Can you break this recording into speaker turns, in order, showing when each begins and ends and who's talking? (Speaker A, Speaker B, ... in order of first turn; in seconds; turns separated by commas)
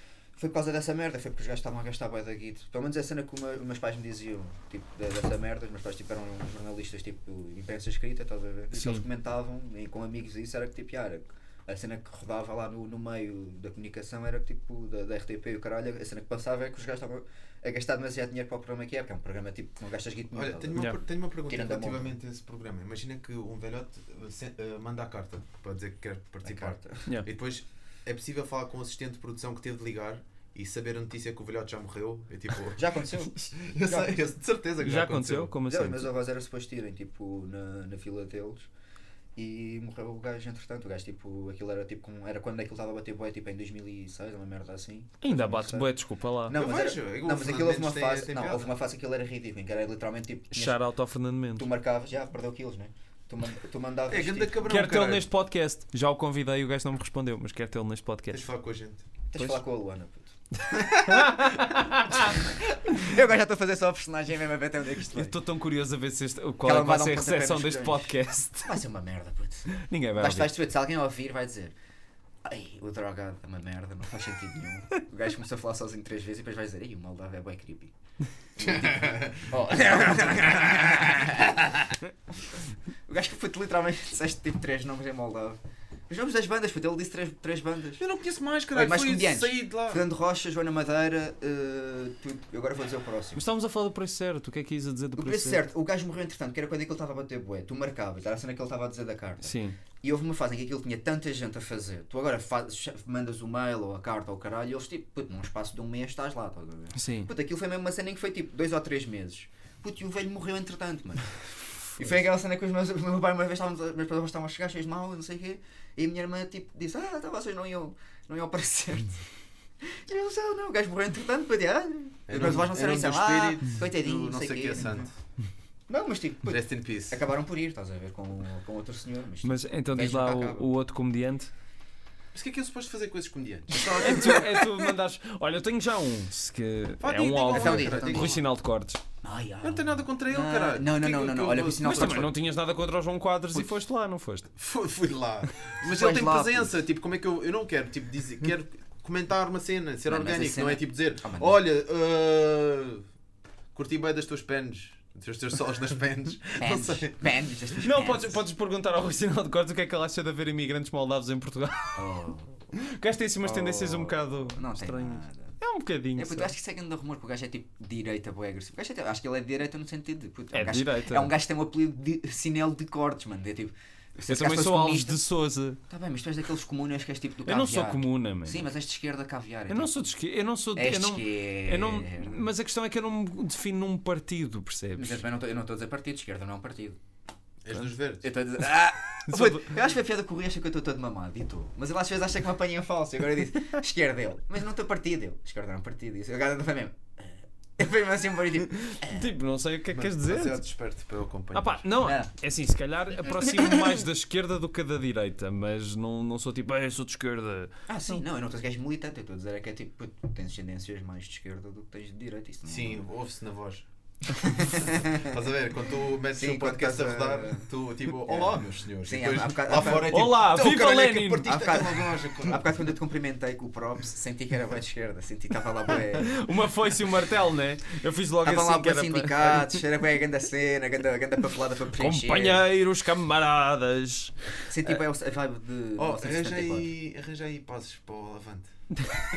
Speaker A: 0.3-20.9, Speaker B: 8.7-9.0, Speaker C: 20.3-32.9, Speaker A: 21.4-22.1, Speaker A: 26.4-27.0, Speaker A: 32.7-34.1, Speaker C: 33.5-35.5, Speaker B: 34.8-36.1, Speaker A: 35.7-38.7, Speaker A: 39.4-45.9, Speaker B: 45.2-46.5, Speaker A: 46.5-50.8, Speaker C: 46.5-48.7, Speaker B: 50.5-51.6, Speaker A: 51.5-54.6, Speaker C: 54.1-55.3, Speaker B: 54.6-58.5, Speaker C: 58.3-59.0, Speaker A: 59.3-60.3, Speaker B: 59.3-59.6, Speaker B: 61.0-62.3, Speaker A: 62.1-65.3, Speaker B: 65.1-68.8, Speaker A: 66.6-71.7, Speaker B: 69.7-70.5, Speaker A: 72.4-77.9, Speaker A: 78.5-82.0, Speaker C: 78.6-79.5, Speaker A: 83.1-85.6, Speaker A: 86.1-88.0, Speaker C: 88.0-90.0, Speaker A: 88.7-93.4, Speaker B: 93.3-95.6, Speaker A: 95.2-119.2, Speaker B: 99.4-99.8, Speaker B: 106.9-107.3, Speaker A: 119.8-125.1, Speaker C: 122.3-125.1, Speaker A: 125.9-130.7, Speaker C: 126.5-127.2, Speaker B: 129.4-131.5, Speaker C: 132.3-134.5, Speaker A: 133.8-134.6, Speaker B: 133.9-139.0, Speaker C: 137.0-138.4, Speaker A: 137.5-138.4, Speaker A: 139.2-142.3, Speaker C: 139.6-142.3, Speaker B: 141.8-144.5, Speaker C: 144.5-153.0, Speaker A: 145.8-146.7, Speaker A: 150.1-151.6, Speaker C: 153.7-157.8, Speaker A: 156.6-158.4, Speaker B: 157.8-162.0, Speaker A: 161.9-162.6, Speaker B: 162.7-166.5, Speaker A: 163.4-165.6, Speaker A: 166.2-175.2, Speaker B: 170.5-171.3, Speaker B: 174.3-175.8, Speaker A: 175.9-180.1, Speaker B: 177.4-178.6, Speaker B: 179.7-185.2, Speaker A: 180.7-182.4, Speaker A: 184.9-187.0, Speaker C: 187.6-188.3, Speaker A: 188.2-199.3, Speaker B: 189.3-189.6, Speaker B: 198.9-200.6, Speaker C: 199.9-201.8, Speaker B: 201.5-207.7, Speaker A: 202.0-202.3, Speaker A: 207.9-213.0, Speaker C: 212.7-213.8, Speaker A: 214.3-215.3, Speaker C: 214.8-222.6, Speaker A: 216.3-217.7, Speaker A: 218.2-220.5, Speaker B: 220.1-221.5, Speaker A: 221.4-226.4, Speaker B: 226.2-229.8, Speaker A: 228.4-232.6, Speaker B: 232.0-235.0, Speaker A: 234.7-236.9, Speaker C: 236.0-238.7